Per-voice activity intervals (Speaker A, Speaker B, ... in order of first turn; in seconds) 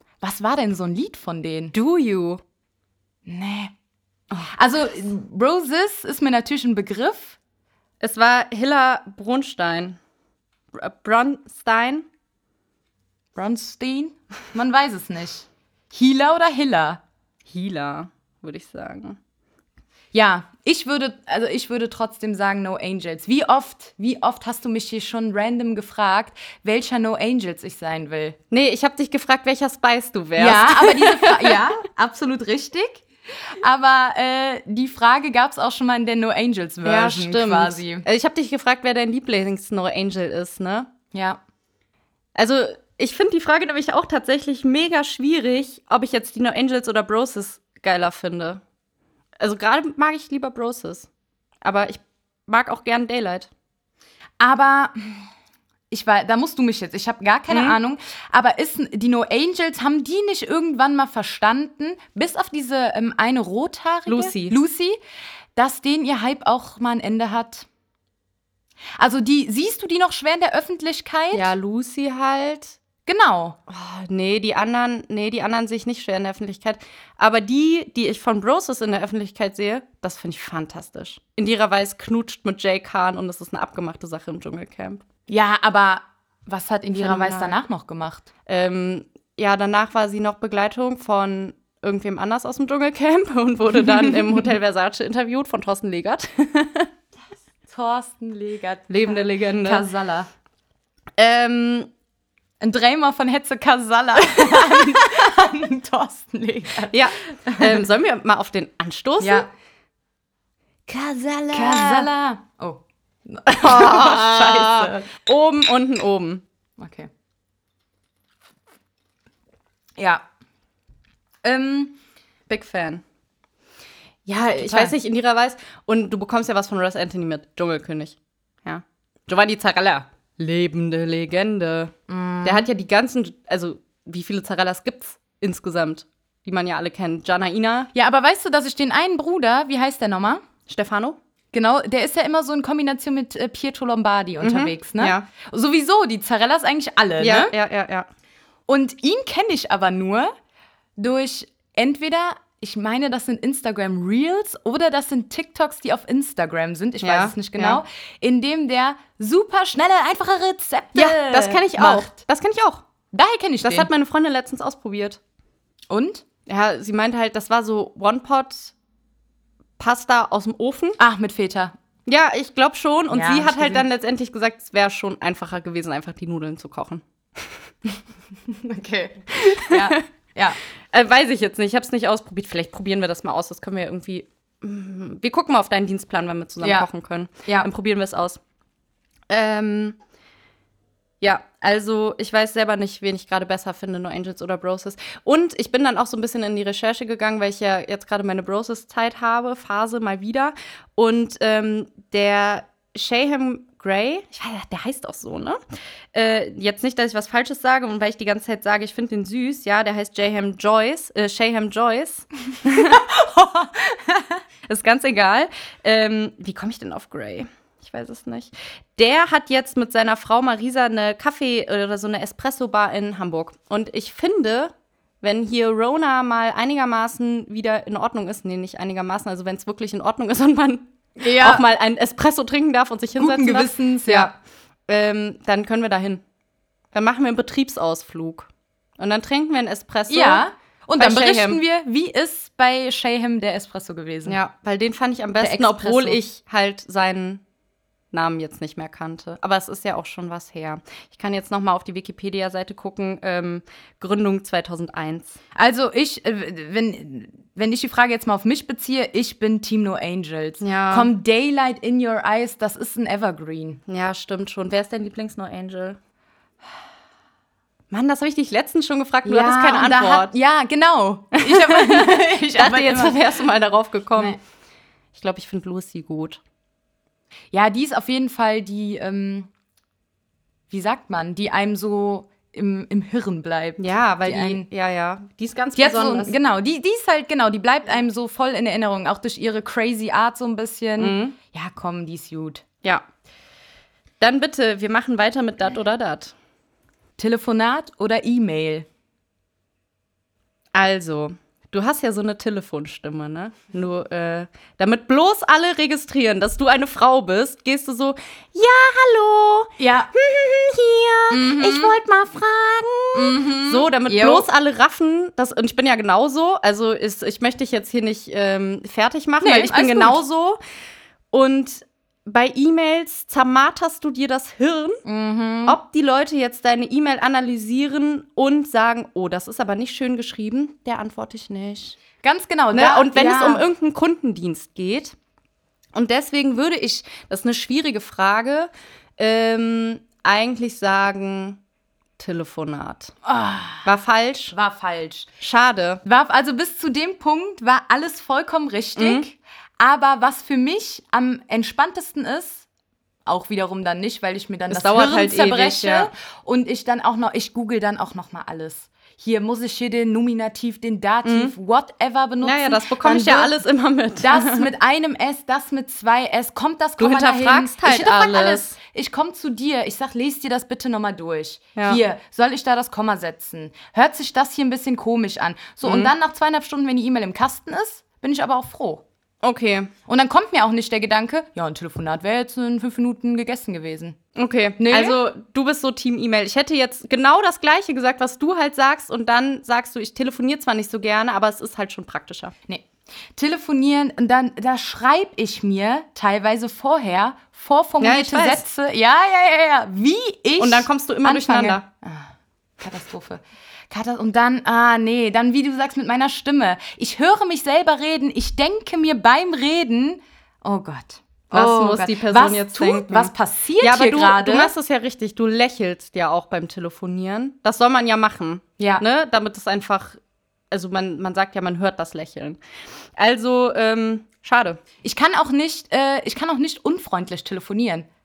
Speaker A: 0.2-1.7, 3.3-3.7, 4.5-7.4, 13.3-17.0, 20.1-28.4, 30.4-38.0, 41.1-41.4, 54.4-55.3, 55.9-65.0, 65.6-67.7, 69.0-71.5, 73.1-73.6, 85.3-88.3, 93.8-94.4, 97.7-100.3, 102.6-107.8, 109.2-109.5, 111.5-115.1, 116.8-117.1, 120.0-120.2, 121.4-122.0, 124.5-124.9, 132.1-132.7, 137.9-140.4, 141.5-147.5, 148.7-150.3, 151.0-162.1, 163.1-163.9, 165.9-166.2, 171.0-171.7, 173.1-173.9, 178.5-180.6, 186.6-186.9, 212.7-214.4, 231.2-231.6, 233.2-234.3, 240.1-244.4, 245.4-246.2, 255.6-263.8, 269.2-273.2, 277.5-279.5, 280.7-284.7, 285.8-292.6, 297.2-298.9, 309.8-310.1, 311.3-311.9, 313.1-314.5, 319.4-320.2, 325.1-325.8, 332.2-333.6, 343.2-343.9, 344.5-345.3, 346.0-352.7, 353.3-363.5, 364.2-379.0, 380.1-384.2, 384.8-385.2, 392.7-402.3, 402.8-414.7, 418.8-419.0, 425.0-428.1
Speaker B: 1.7-2.4, 8.0-10.0, 10.7-12.1, 17.5-19.2, 28.5-31.6, 36.9-40.9, 42.4-48.6, 49.4-51.1, 51.6-53.5, 57.5-57.8, 64.1-64.5, 71.3-72.8, 73.7-85.0, 86.9-87.6, 88.5-96.9, 98.9-99.8, 101.2-101.9, 106.9-109.5, 110.9-112.1, 113.5-116.4, 122.5-123.0, 124.3-131.9, 132.4-137.9, 140.7-141.2, 144.4-145.3, 147.2-148.1, 157.0-157.8, 160.9-162.8, 163.6-165.2, 166.5-168.7, 169.8-171.0, 172.1-177.6, 179.3-180.0, 180.9-188.4, 189.3-190.0, 191.2-205.6, 206.1-213.0, 214.7-234.3, 234.9-236.2, 236.9-240.4, 241.0-241.6, 244.3-247.4, 248.1-255.4, 260.6-261.1, 263.9-266.0, 267.9-270.3, 271.3-274.4, 275.1-276.4, 283.8-286.4, 291.0-291.4, 294.2-296.3, 300.7-320.6, 321.3-325.0, 325.7-332.0, 332.7-335.1, 335.9-341.6, 342.2-343.1, 343.8-344.6, 345.4-346.0, 349.0-349.2, 354.7-356.1, 361.2-361.5, 362.4-364.7, 367.0-368.7, 371.8-372.0, 375.8-376.1, 379.4-379.9, 384.4-392.5, 398.0-398.6, 400.6-401.9, 411.5-420.2, 420.7-422.6, 423.2-424.8